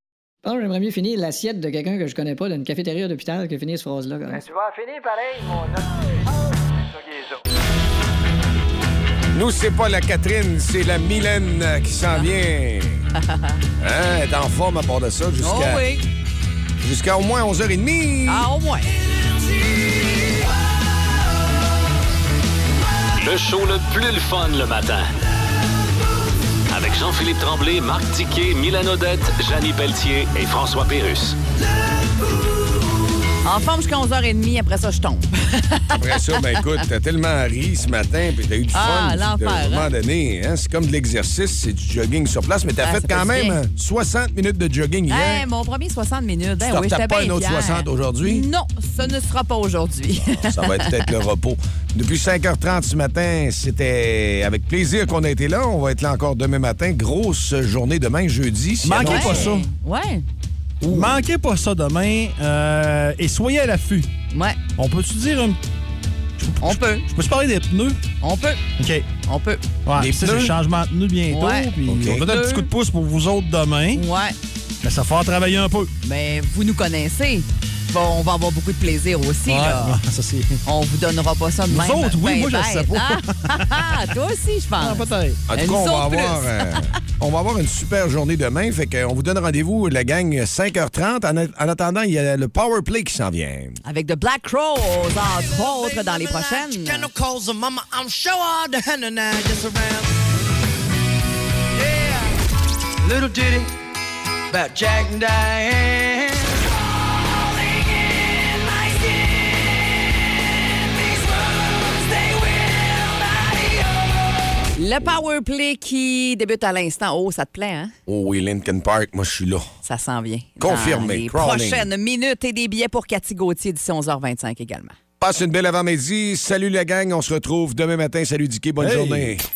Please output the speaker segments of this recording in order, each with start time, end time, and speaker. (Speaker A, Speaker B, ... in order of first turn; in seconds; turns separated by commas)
Speaker A: 0.4-4.4, Speaker B: 4.3-7.4, Speaker C: 9.3-13.0, Speaker D: 13.2-13.6, Speaker C: 13.8-15.8, Speaker D: 15.4-16.0, Speaker C: 16.8-18.5, Speaker D: 18.3-18.9, Speaker E: 19.2-21.2, Speaker F: 23.2-25.1, Speaker F: 26.7-31.4, Speaker E: 31.8-32.9, Speaker D: 33.4-36.6, Speaker C: 36.0-45.5, Speaker D: 38.7-39.9, Speaker D: 42.8-43.6, Speaker D: 45.1-51.2, Speaker C: 46.6-48.5, Speaker C: 50.3-59.5, Speaker G: 58.8-59.7, Speaker D: 59.0-60.2, Speaker G: 60.9-64.1, Speaker D: 64.3-64.6, Speaker G: 64.8-65.6, Speaker G: 66.4-68.0, Speaker D: 66.6-67.0, Speaker D: 68.2-68.6, Speaker G: 68.8-69.1, Speaker D: 69.3-69.6, Speaker G: 69.9-74.0, Speaker C: 70.0-70.5, Speaker D: 71.3-72.7, Speaker C: 71.9-72.2, Speaker D: 73.9-74.3, Speaker G: 74.8-75.9, Speaker D: 76.0-80.0, Speaker G: 79.5-80.6, Speaker D: 80.6-86.8, Speaker G: 81.7-83.9, Speaker G: 84.8-85.4, Speaker C: 85.5-93.8, Speaker D: 93.8-97.1, Speaker E: 95.3-100.1, Speaker E: 101.8-102.3, Speaker E: 103.0-103.7, Speaker E: 104.5-114.5, Speaker D: 114.8-117.9, Speaker C: 118.1-119.7, Speaker D: 119.8-125.0, Speaker C: 120.6-121.9, Speaker C: 125.2-129.4, Speaker G: 128.8-129.4